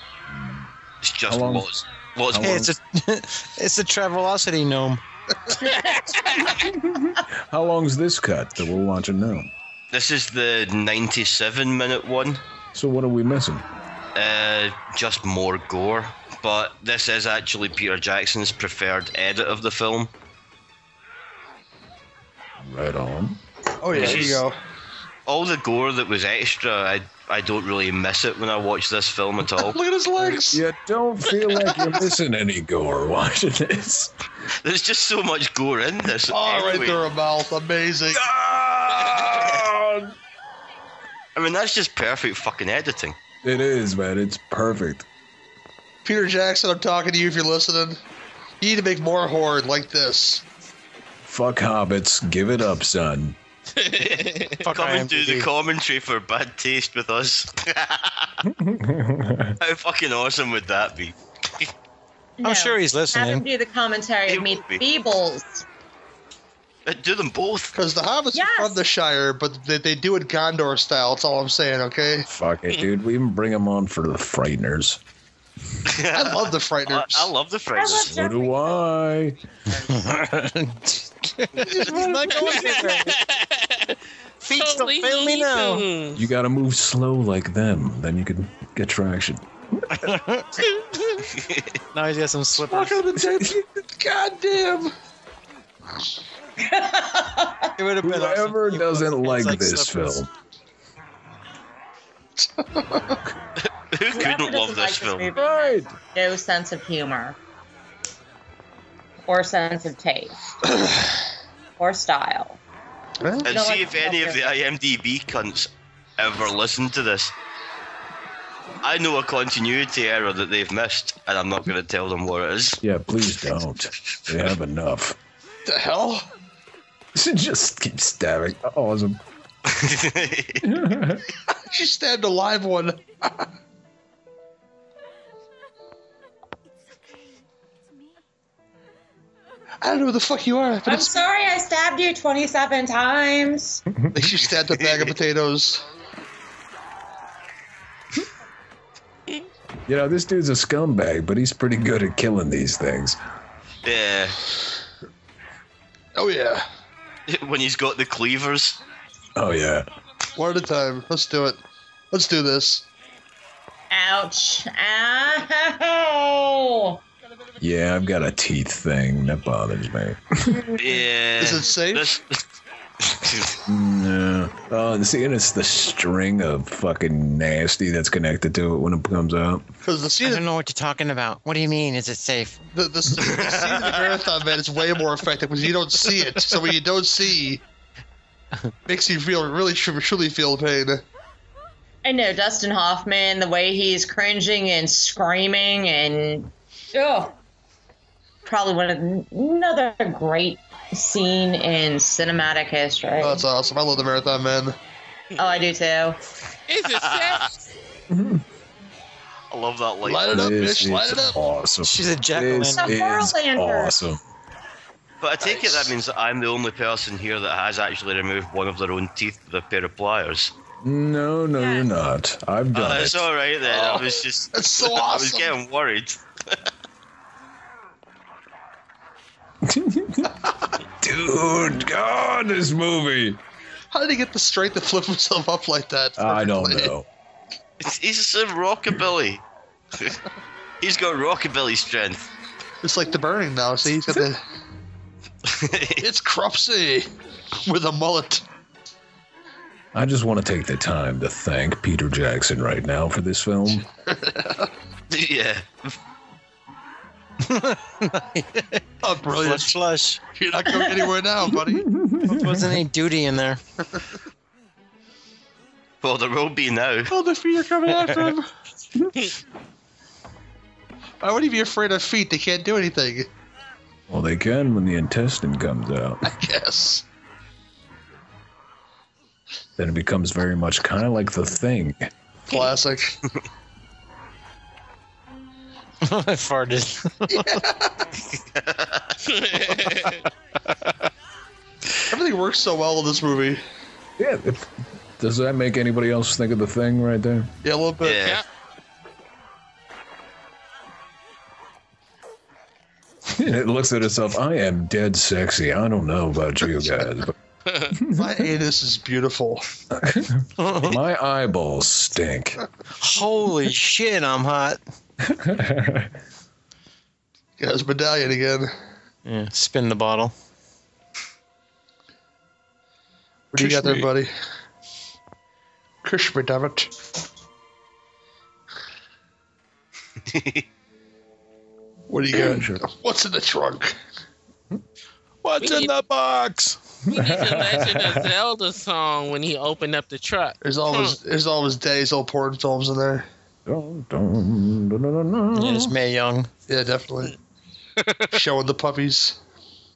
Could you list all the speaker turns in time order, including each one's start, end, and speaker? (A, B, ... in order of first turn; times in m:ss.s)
0:00.3-0:00.7 A
0:01.0-0:02.7 B
0:01.3-0:01.7 A
0:02.3-0:02.7 A
0:02.4-0:05.0 C
0:05.6-0:06.7 D
0:06.5-0:09.5 A
0:09.9-0:12.4 B
0:12.7-0:13.6 A
0:14.2-0:20.1 B
0:22.6-0:23.4 A
0:23.8-0:24.6 E
0:23.9-0:24.4 A
0:23.9-0:24.4 B
0:25.3-0:29.8 B
0:29.6-0:30.6 E
0:30.2-0:34.1 A
0:34.6-0:37.0 B
0:36.3-0:38.2 E
0:38.1-0:40.2 A
0:39.2-0:39.6 B
0:41.4-0:43.2 B
0:43.4-0:45.1 A
0:46.0-0:48.0 E
0:48.6-0:50.4 E
0:51.2-0:53.4 A
0:53.7-0:54.6 D
0:54.0-0:58.4 B
0:54.6-0:55.5 C
0:58.5-0:59.6 A
0:59.6-1:01.7 B
1:02.4-1:05.7 F
1:02.4-1:03.4 C
1:04.3-1:04.8 B
1:06.9-1:07.8 B
1:07.8-1:12.3 E
1:08.3-1:08.8 F
1:12.3-1:15.0 A
1:15.8-1:18.1 B
1:16.1-1:17.3 E
1:17.7-1:18.8 F
1:17.8-1:19.4 A
1:19.9-1:23.2 C
1:21.6-1:22.7 E
1:22.4-1:24.0 D
1:24.4-1:25.9 C
1:24.5-1:26.2 D
1:26.2-1:30.1 A
1:29.9-1:30.7 C
1:30.7-1:31.2 D
1:31.3-1:31.8 B
1:31.9-1:33.1 C
1:32.5-1:34.9 E
1:36.6-1:37.7 F
1:37.8-1:40.2 C
1:38.0-1:40.3 A
1:42.4-1:43.2 E
1:43.6-1:45.3 B
1:44.1-1:47.4 F
1:45.4-1:46.0 A
1:49.3-1:50.4 F
1:50.8-1:51.1 E
1:51.8-1:52.6 F
1:53.2-1:53.5 E
1:53.4-1:57.3 B
1:53.5-1:54.5 F
1:58.8-2:02.8 B
2:02.8-2:05.2 A
2:05.7-2:06.3 E
2:07.1-2:09.2 A
2:09.7-2:10.7 B
2:10.6-2:11.3 A
2:11.5-2:13.5 E
2:19.8-2:21.2 E
2:20.9-2:23.8 F
2:24.1-2:25.8 E
2:24.4-2:25.1 B
2:29.9-2:33.2 A
2:33.8-2:34.4 B
2:36.2-2:36.6 E
2:37.3-2:38.8 B
2:39.4-2:39.9 A
2:40.4-2:42.9 E
2:43.9-2:47.0 F
2:47.6-2:50.6 A
2:50.8-2:52.4 B
2:51.4-2:52.1 E
2:53.0-2:53.6 B
2:53.7-2:59.7 A
2:59.8-3:00.4 E
3:00.2-3:02.6 C
3:02.7-3:07.6 E
3:03.2-3:04.2 B
3:08.9-3:11.0 E
3:12.0-3:17.4 F
3:18.4-3:23.4 F
3:23.2-3:24.8 E
3:25.4-3:26.2 F
3:26.7-3:27.6 D
3:26.9-3:27.5 B
3:28.1-3:28.4 A
3:29.5-3:30.5 B
3:30.0-3:31.4 E
3:30.3-3:34.2 A
3:31.8-3:33.0 C
3:32.8-3:34.0 F
3:35.2-3:40.5 B
3:35.4-3:35.9 E
3:40.8-3:43.3 A
3:41.6-3:41.9 F
3:42.7-3:46.6 B
3:43.6-3:45.5 E
3:49.6-3:53.4 A
3:53.9-3:56.9 E
3:56.2-3:57.1 A
3:57.8-3:59.4 B
4:00.8-4:02.3 B
4:02.8-4:04.4 E
4:05.4-4:06.1 B
4:06.0-4:07.1 E
4:07.7-4:08.4 E
4:09.9-4:13.9 A
4:14.0-4:14.7 E
4:15.1-4:16.0 B
4:17.4-4:20.2 C
4:19.0-4:19.8 E
4:20.3-4:21.9 E
4:21.7-4:22.8 A
4:22.2-4:23.6 C
4:26.0-4:27.1 B
4:27.1-4:28.5 E
4:31.2-4:33.3 E
4:34.1-4:36.4 A
4:36.2-4:37.0 E
4:39.8-4:42.1 A
4:42.5-4:43.2 E
4:46.0-4:47.5 C
4:47.3-4:48.1 E
4:48.3-4:49.2 B
4:49.2-4:50.3 D
4:52.1-4:53.6 E
4:54.2-4:57.5 A
4:57.6-4:58.3 E
4:58.0-4:58.4 B
5:03.3-5:07.4 A
5:07.7-5:08.0 D
5:07.9-5:08.5 A
5:08.1-5:09.7 E
5:09.9-5:12.6 A
5:10.6-5:11.0 C
5:13.0-5:14.8 C
5:15.3-5:16.1 A
5:17.6-5:18.7 E
5:19.2-5:20.3 C
5:23.5-5:24.3 E
5:23.6-5:24.1 C
5:26.0-5:26.9 E
5:30.2-5:30.7 B
5:32.1-5:34.0 E
5:32.3-5:32.8 A
5:35.4-5:36.8 C
5:35.6-5:35.9 D
5:37.1-5:38.3 A
5:37.1-5:41.2 D
5:40.6-5:43.3 E
5:43.7-5:45.9 A
5:45.5-5:46.5 C
5:46.7-5:47.4 E
5:48.3-5:49.4 E